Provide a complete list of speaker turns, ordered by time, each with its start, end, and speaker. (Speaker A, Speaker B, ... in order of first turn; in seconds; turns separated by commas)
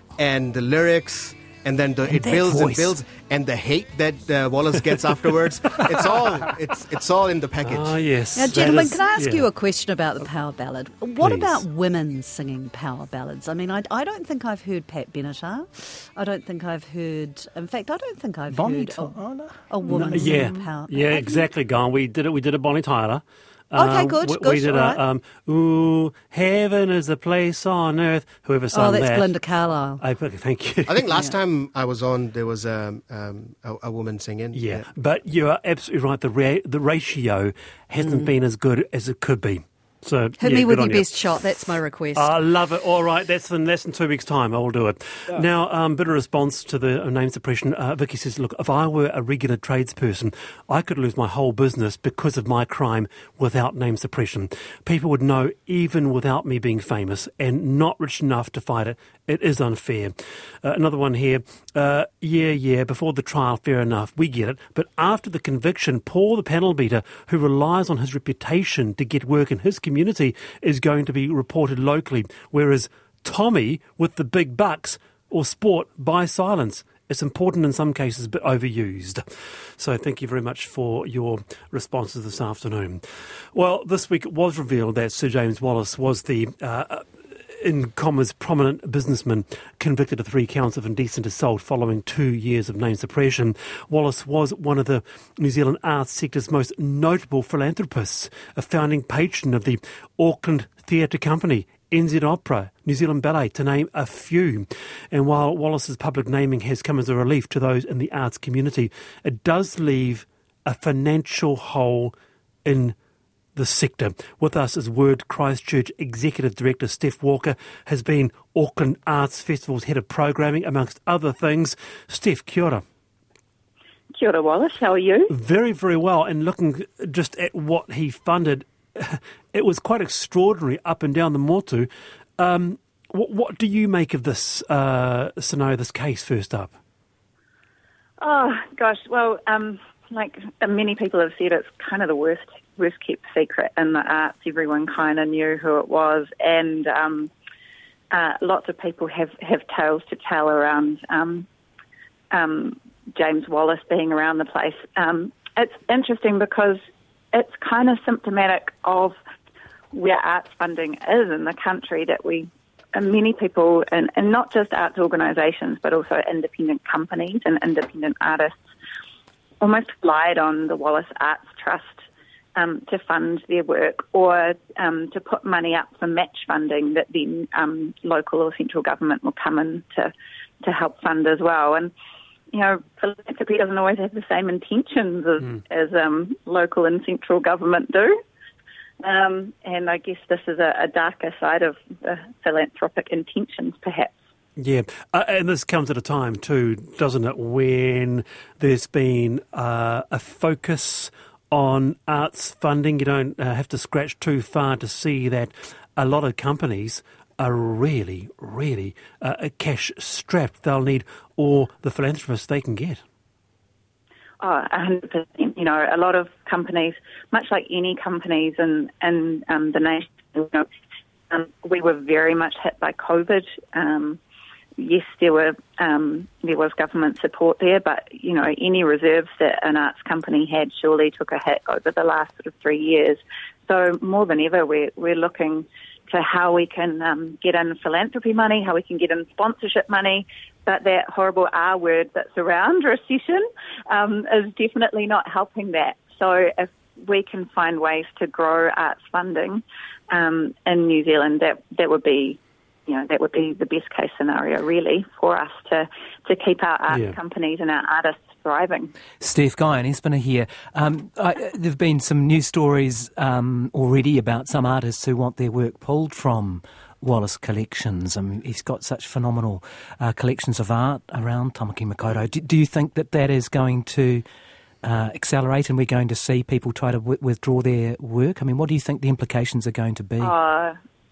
Speaker A: 0.2-8.0, Speaker B: 2.0-3.0, Speaker C: 7.6-9.5, Speaker D: 8.3-19.2, Speaker C: 11.2-11.7, Speaker B: 18.5-19.6, Speaker D: 19.7-21.4, Speaker C: 19.9-29.3, Speaker D: 23.7-25.0, Speaker D: 28.7-30.0, Speaker C: 30.0-31.1, Speaker A: 30.9-34.9, Speaker C: 34.5-112.1, Speaker D: 38.0-38.3, Speaker D: 40.4-42.3, Speaker C: 112.7-113.0, Speaker C: 113.6-122.8, Speaker E: 124.1-125.3, Speaker C: 125.3-136.8, Speaker E: 138.2-147.3, Speaker E: 148.1-151.5, Speaker E: 152.3-156.8, Speaker E: 157.3-159.2, Speaker E: 159.9-168.6, Speaker E: 169.6-172.0, Speaker E: 172.6-181.9, Speaker E: 182.5-188.2, Speaker E: 189.0-194.1, Speaker C: 194.6-213.0, Speaker E: 214.4-220.7, Speaker E: 221.3-224.2, Speaker E: 224.8-258.9, Speaker C: 256.9-257.2, Speaker B: 259.2-274.2, Speaker B: 274.8-280.4, Speaker E: 280.2-280.8